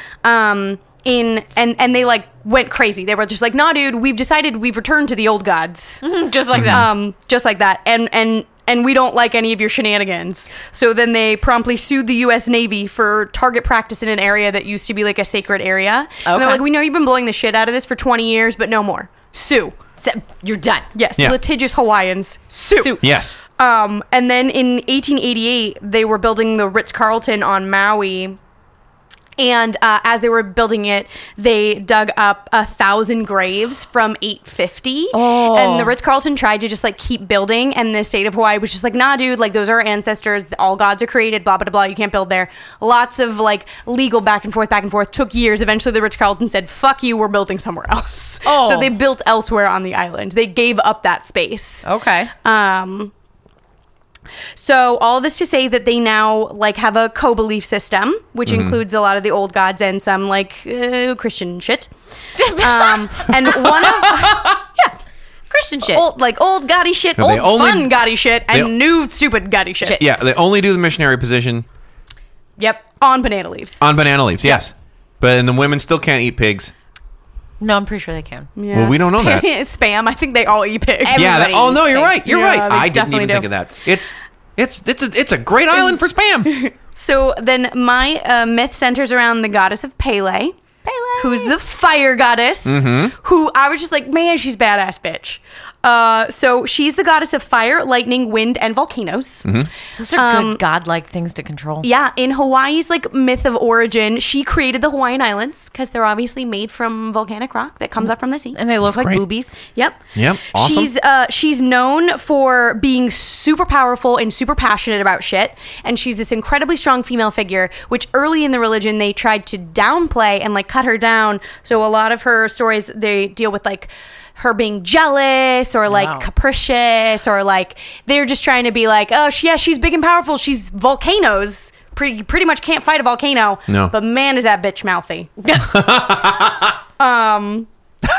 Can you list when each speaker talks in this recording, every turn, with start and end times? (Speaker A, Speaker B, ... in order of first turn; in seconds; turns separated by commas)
Speaker A: 0.2-6.0, Speaker B: 6.0-6.9, Speaker C: 6.5-6.8, Speaker A: 6.6-19.8, Speaker B: 16.2-16.6, Speaker B: 20.0-20.9, Speaker A: 20.9-28.4, Speaker B: 22.7-23.0, Speaker C: 23.0-23.3, Speaker A: 29.4-51.9, Speaker B: 35.1-35.9, Speaker B: 48.5-48.9, Speaker B: 51.8-52.3, Speaker A: 52.4-53.1, Speaker A: 54.5-61.9, Speaker C: 58.5-58.8, Speaker B: 62.4-63.3, Speaker A: 62.5-64.9, Speaker C: 63.8-64.5, Speaker B: 65.5-66.0, Speaker A: 65.8-70.0, Speaker C: 67.2-68.0, Speaker C: 70.0-71.6, Speaker A: 73.0-73.8, Speaker C: 73.8-76.7, Speaker B: 77.6-78.5, Speaker A: 78.5-81.3, Speaker C: 78.7-79.5, Speaker B: 81.0-82.2, Speaker C: 81.1-86.5, Speaker A: 82.2-83.5, Speaker A: 86.4-90.5, Speaker B: 90.8-91.5, Speaker A: 91.2-99.5, Speaker C: 92.7-93.1, Speaker B: 99.9-101.9, Speaker A: 100.1-100.6, Speaker A: 101.8-108.6, Speaker B: 108.5-109.6, Speaker C: 108.8-109.2, Speaker A: 109.7-135.3, Speaker C: 110.1-110.9, Speaker B: 125.9-126.2, Speaker C: 133.7-133.9, Speaker B: 135.4-135.8, Speaker C: 135.6-136.8, Speaker A: 137.0-137.7